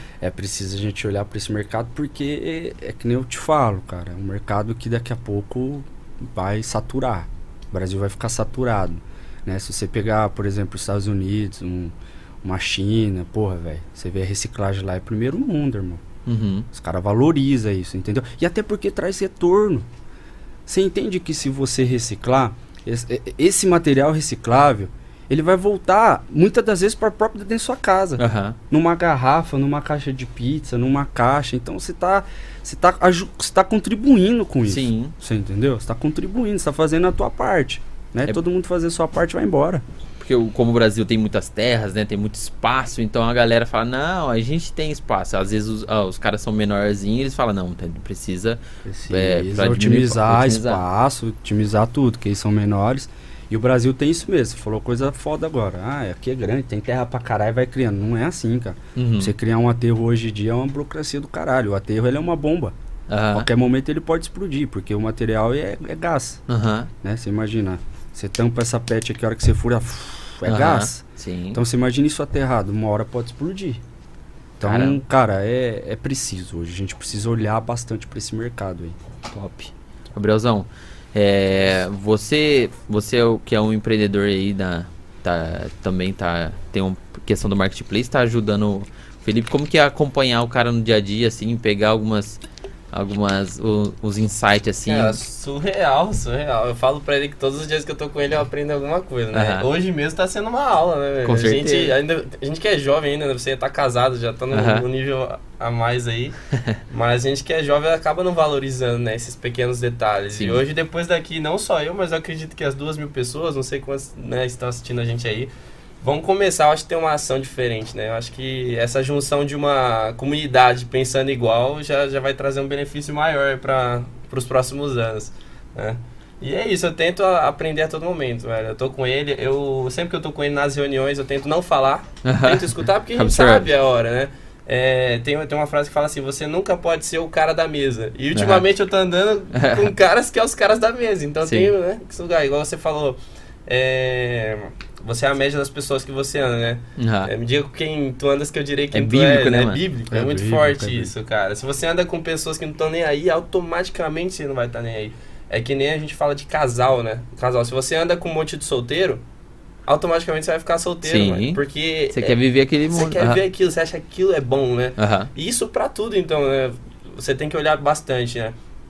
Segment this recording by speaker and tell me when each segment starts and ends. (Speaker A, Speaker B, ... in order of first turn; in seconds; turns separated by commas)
Speaker A: 0.2-16.0, Speaker B: 16.3-16.7, Speaker A: 16.7-19.9, Speaker A: 20.7-39.8, Speaker B: 28.2-28.6, Speaker B: 34.7-35.1, Speaker B: 40.2-50.8, Speaker A: 48.9-62.8, Speaker B: 59.0-59.3, Speaker B: 63.1-63.5, Speaker A: 63.3-66.4, Speaker B: 66.5-66.9, Speaker A: 67.0-71.0, Speaker B: 70.5-71.6, Speaker A: 71.5-73.8, Speaker A: 74.6-79.0, Speaker B: 74.6-75.0, Speaker B: 79.3-95.2, Speaker C: 94.9-106.4, Speaker B: 99.3-99.7, Speaker B: 101.2-102.0, Speaker B: 104.5-104.8, Speaker C: 106.9-115.5, Speaker B: 110.3-110.6, Speaker C: 116.0-159.2, Speaker B: 132.2-133.7, Speaker B: 138.3-138.7, Speaker B: 139.5-139.9, Speaker B: 141.4-141.7, Speaker B: 147.0-147.3, Speaker B: 148.9-149.8, Speaker A: 150.1-151.1, Speaker C: 159.9-162.4, Speaker B: 161.0-161.6, Speaker B: 162.1-163.4, Speaker C: 162.9-168.6, Speaker B: 165.0-165.3